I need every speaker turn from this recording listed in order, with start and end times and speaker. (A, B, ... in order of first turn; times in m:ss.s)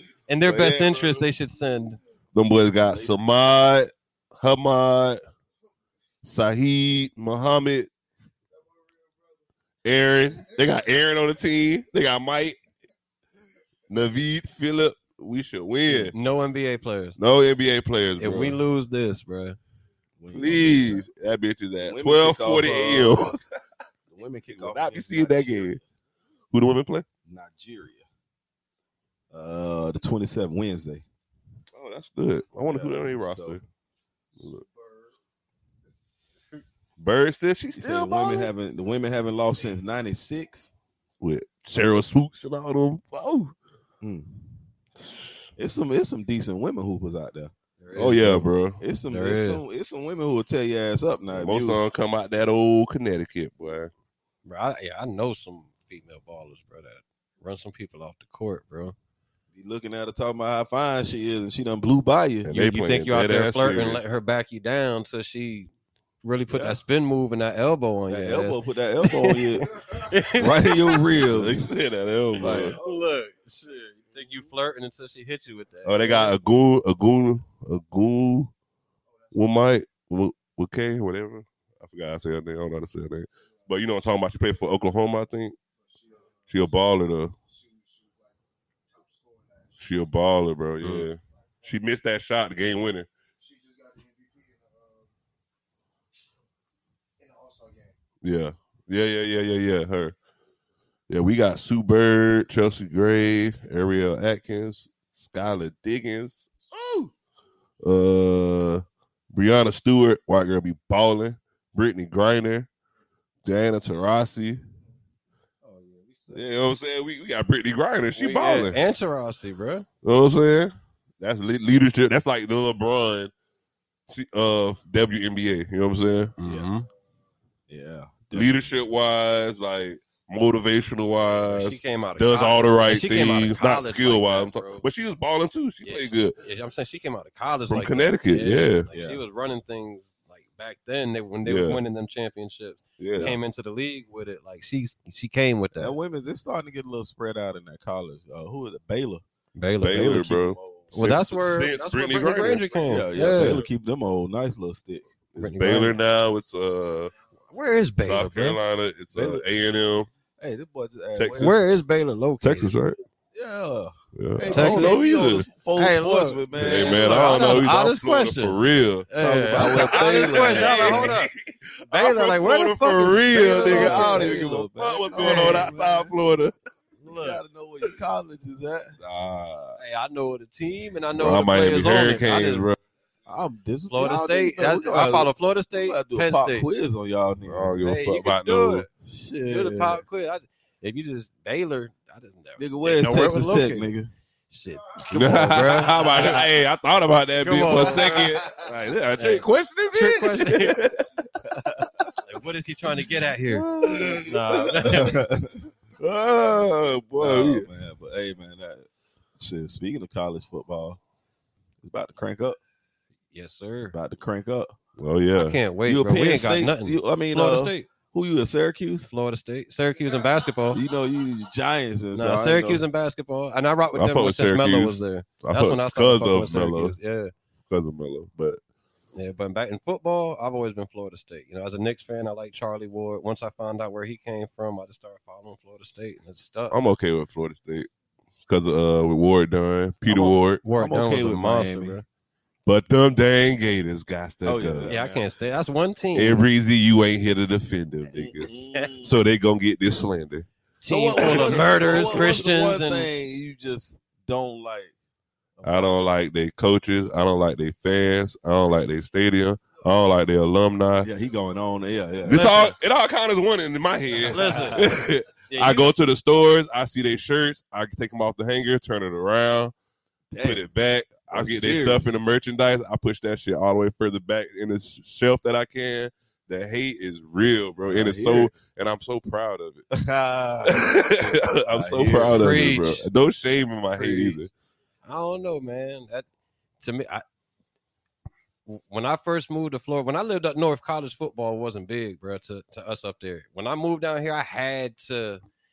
0:00.3-0:02.0 A
0:00.4-0:01.2 B
0:02.3-0:05.2 B
0:06.2-0:07.9 B
0:09.8-0:12.6 B
0:13.9-0:16.1 B
0:15.9-0:17.2 A
0:17.2-0:18.6 B
0:18.2-0:19.6 A
0:20.2-0:21.0 C
0:20.3-0:23.4 B
0:21.8-0:23.4 C
0:24.1-0:25.8 C
0:24.6-0:25.8 B
0:26.5-0:27.0 B
0:27.2-0:28.0 C
0:29.3-0:31.0 C
0:31.7-0:33.6 B
0:32.7-0:33.6 C
0:34.4-0:34.6 B
0:37.0-0:38.5 B
0:37.8-0:40.7 C
0:41.2-0:43.5 B
0:44.0-0:44.5 C
0:45.0-0:45.4 B
0:45.6-0:48.1 C
0:47.8-0:48.5 A
0:47.9-0:48.8 B
0:48.8-0:51.8 C
0:49.1-0:49.6 A
0:51.3-0:53.9 B
0:54.4-0:58.9 A
0:59.5-1:02.5 C
1:02.4-1:04.0 B
1:02.5-1:05.7 A
1:06.2-1:11.1 A
1:06.5-1:06.8 C
1:08.1-1:09.7 C
1:10.3-1:11.7 C
1:11.2-1:12.8 B
1:12.4-1:13.0 C
1:12.4-1:16.3 A
1:15.8-1:18.5 B
1:19.3-1:25.6 B
1:26.5-1:27.4 B
1:29.8-1:33.1 B
1:38.2-1:40.1 B
1:41.1-1:46.7 B
1:46.8-1:47.1 C
1:47.8-1:52.7 B
1:53.4-1:54.6 B
1:55.6-1:56.3 A
1:56.3-1:58.8 B
1:58.2-1:59.8 A
2:00.0-2:03.3 B
2:04.1-2:06.3 B
2:06.4-2:06.8 A
2:06.4-2:06.7 C
2:07.7-2:08.6 C
2:08.3-2:16.4 B
2:11.3-2:14.8 A
2:15.8-2:25.9 A
2:17.7-2:18.9 B
2:18.9-2:19.2 C
2:21.4-2:21.8 B
2:23.0-2:23.4 B
2:25.8-2:29.2 C
2:29.5-2:30.4 A
2:29.8-2:32.9 B
2:30.1-2:30.9 C
2:30.9-2:33.6 A
2:32.9-2:35.0 C
2:35.3-2:37.1 B
2:35.4-2:35.9 A
2:37.5-2:38.6 A
2:38.0-2:40.1 B
2:39.1-2:39.4 C
2:40.4-2:41.6 C
2:41.1-2:41.6 B
2:41.4-2:42.7 A
2:42.4-2:43.0 B
2:43.3-2:47.6 C
2:44.2-2:45.5 B
2:44.5-2:45.0 A
2:45.8-2:51.3 A
2:46.6-2:56.5 B
2:49.2-2:51.2 C
2:51.9-2:54.4 A
2:53.3-2:56.1 C
2:55.1-2:55.7 A
2:57.0-2:57.4 A
2:57.0-2:59.0 C
2:59.0-2:59.8 B
2:59.8-3:02.7 A
3:01.1-3:02.8 B
3:03.3-3:07.8 C
3:03.9-3:06.7 A
3:07.4-3:08.8 B
3:07.8-3:08.9 A
3:09.0-3:10.0 C
3:09.5-3:13.9 A
3:12.6-3:14.1 C
3:14.5-3:16.4 A
3:15.1-3:21.3 B
3:16.0-3:16.3 C
3:17.4-3:18.3 A
3:18.0-3:18.2 C
3:19.2-3:20.8 A
3:21.4-3:22.1 C
3:22.2-3:23.7 A
3:23.5-3:25.1 B
3:23.6-3:24.3 C
3:24.2-3:25.2 A
3:24.8-3:25.7 C
3:26.0-3:27.7 B
3:27.2-3:31.0 C
3:31.8-3:32.6 C
3:33.3-3:33.9 A
3:33.9-3:34.7 C
3:35.0-3:35.6 B
3:35.4-3:37.9 A
3:35.8-3:39.1 C
3:39.1-3:40.8 A
3:40.7-3:42.8 C
3:42.1-3:47.3 A
3:43.9-3:47.0 B
3:47.7-3:48.6 B
3:49.1-3:56.8 A
3:56.7-3:57.9 B
3:58.5-4:00.6 B
4:00.1-4:02.0 C
4:00.6-4:02.0 A
4:02.6-4:04.9 B
4:04.4-4:05.3 C
4:04.8-4:06.4 A
4:06.1-4:10.5 B
4:08.1-4:09.1 C
4:10.8-4:13.1 A
4:10.9-4:14.9 C
4:11.2-4:12.4 B
4:15.6-4:16.0 C
4:15.6-4:21.1 B
4:21.0-4:22.5 C
4:22.2-4:29.7 B
4:22.3-4:22.8 A
4:24.2-4:24.9 C
4:24.3-4:24.9 A
4:25.5-4:25.9 A
4:30.3-4:30.7 C
4:30.4-4:39.8 B
4:31.3-4:32.1 C
4:37.9-4:38.5 C
4:39.9-4:42.5 C
4:40.6-4:44.5 B
4:42.1-4:43.0 A
4:44.0-4:44.4 A
4:45.0-4:46.2 A
4:46.8-4:47.2 A
4:48.7-4:55.4 A